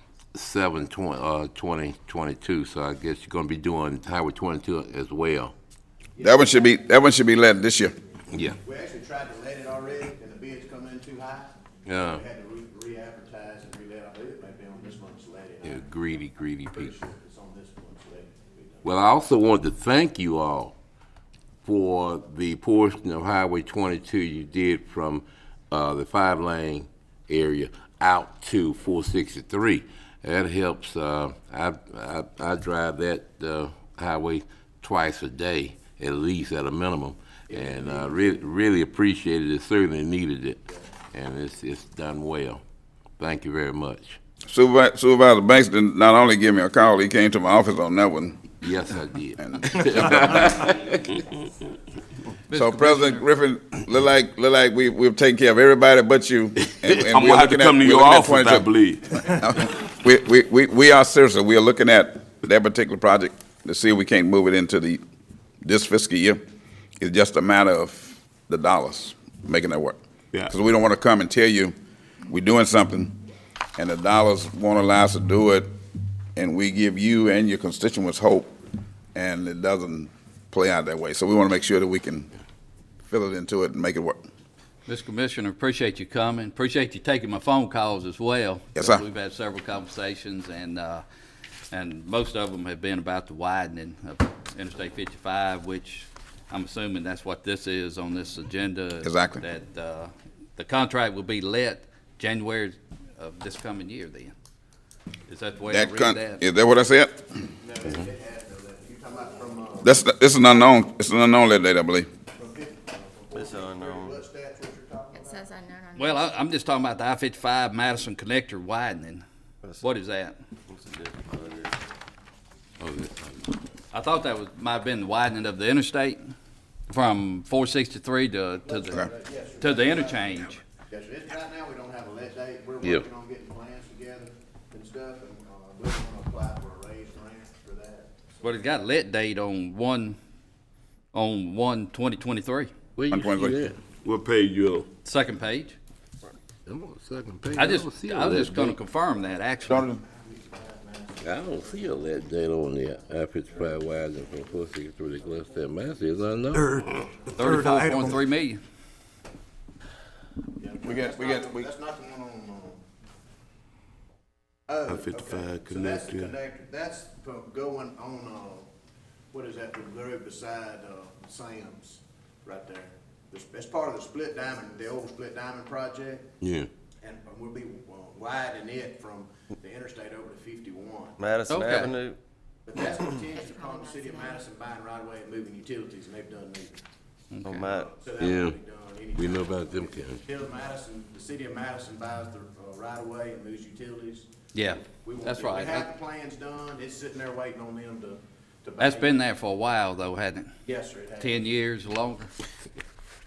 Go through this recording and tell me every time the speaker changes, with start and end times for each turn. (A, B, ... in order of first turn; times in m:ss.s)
0:00.3-0:05.5 A
0:06.2-0:06.7 B
0:06.2-0:07.9 C
0:08.3-0:08.6 A
0:08.6-0:18.9 B
0:11.8-0:12.2 A
0:15.6-0:17.0 A
0:18.8-0:20.7 A
0:21.6-0:42.6 A
0:37.5-0:38.4 B
0:43.2-0:44.2 A
0:44.5-0:48.5 C
0:48.6-0:51.0 A
0:49.4-0:50.5 C
0:52.5-0:53.3 D
0:52.5-1:05.0 C
0:57.0-0:59.3 E
1:05.6-1:06.4 C
1:07.0-1:11.7 C
1:12.3-1:13.2 C
1:13.8-1:15.7 C
1:16.3-1:18.6 C
1:19.1-1:22.3 C
1:23.1-1:24.2 C
1:24.8-1:31.0 D
1:28.8-1:29.0 C
1:31.7-1:44.3 D
1:39.0-1:39.4 C
1:45.3-1:46.4 D
1:45.7-1:47.3 C
1:47.6-1:50.0 B
1:49.8-1:52.1 C
1:52.3-1:55.5 B
1:53.3-1:54.2 F
1:55.1-1:56.3 G
1:55.9-1:59.2 D
1:59.8-2:00.4 D
2:00.7-2:01.8 F
2:02.8-2:03.6 A
2:03.9-2:06.3 D
2:06.9-2:09.0 D
2:08.6-2:18.2 B
2:09.6-2:10.6 D
2:18.4-2:20.2 D
2:21.1-2:22.7 D
2:23.0-2:23.8 A
2:23.1-2:23.6 C
2:24.0-2:24.9 E
2:25.0-2:25.8 D
2:26.6-2:28.8 A
2:27.5-2:29.8 D
2:29.6-2:32.2 B
2:29.7-2:30.0 C
2:31.2-2:36.8 A
2:36.9-2:37.3 B
2:37.4-2:38.6 D
2:40.6-2:42.8 B
2:40.8-2:41.6 C
2:44.7-2:48.7 B
2:44.9-2:46.3 E
2:49.3-2:56.3 B
2:56.4-2:56.7 A
2:57.0-3:01.2 B
3:01.2-3:02.2 F
3:01.5-3:01.9 D
3:02.6-3:06.8 B
3:03.4-3:04.4 G
3:07.3-3:07.7 D
3:07.4-3:07.9 F
3:07.7-3:14.3 B
3:08.2-3:08.6 A
3:09.1-3:10.2 A
3:14.5-3:15.9 D
3:15.0-3:19.2 B
3:18.8-3:20.5 D
3:20.6-3:21.4 B
3:21.2-3:22.3 D